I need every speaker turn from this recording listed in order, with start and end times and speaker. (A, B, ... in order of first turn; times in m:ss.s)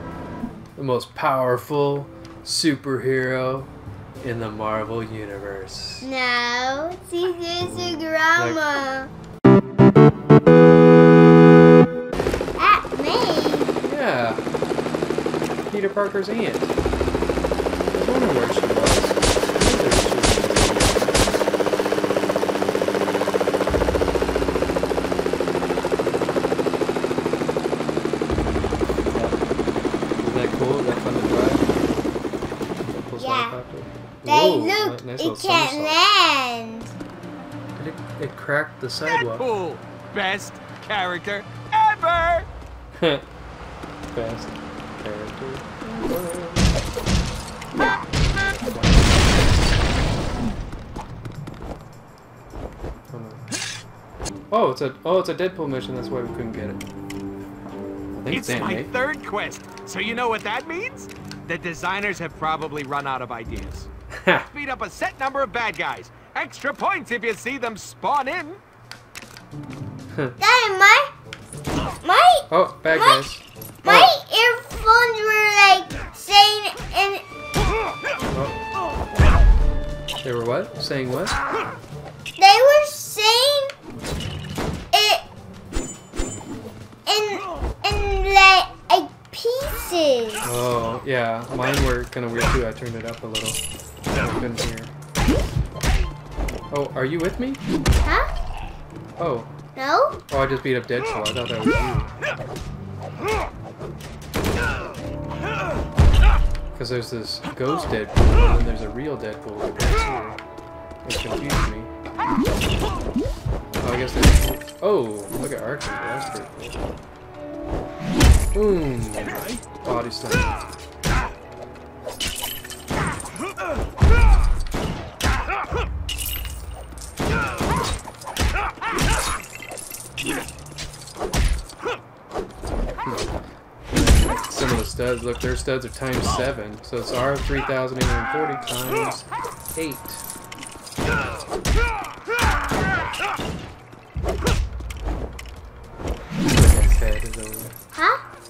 0:00.8-0:06.1 A
0:06.0-0:09.1 B
0:12.6-0:13.8 B
0:13.8-0:14.4 A
0:15.7-0:16.7 A
0:17.9-0:21.2 A
0:29.1-0:29.4 A
0:30.2-0:31.7 A
0:32.9-0:36.0 A
0:33.2-0:33.6 B
0:34.2-0:36.9 B
0:37.8-0:39.5 A
0:39.2-0:42.5 C
0:43.0-0:43.2 A
0:44.1-0:46.7 A
0:48.4-0:49.8 A
0:53.1-0:53.4 A
0:54.5-0:56.8 A
0:58.1-0:58.9 A
0:58.3-1:03.9 C
1:04.1-1:04.5 A
1:04.5-1:08.6 C
1:10.4-1:11.1 B
1:12.0-1:13.2 B
1:12.5-1:14.1 A
1:13.8-1:17.2 B
1:18.3-1:18.6 A
1:20.2-1:21.4 A
1:22.4-1:23.7 B
1:24.9-1:25.2 B
1:27.1-1:30.5 B
1:30.4-1:33.6 A
1:34.2-1:34.9 A
1:36.7-1:37.6 A
1:38.0-1:38.3 B
1:39.2-1:39.5 A
1:39.8-1:40.2 B
1:40.3-1:42.1 A
1:46.7-1:50.4 A
1:51.0-1:51.9 A
1:53.8-1:56.9 A
1:58.5-2:00.7 A
2:13.0-2:13.3 A
2:13.9-2:20.2 A
2:26.5-2:27.7 A
2:28.0-2:28.2 B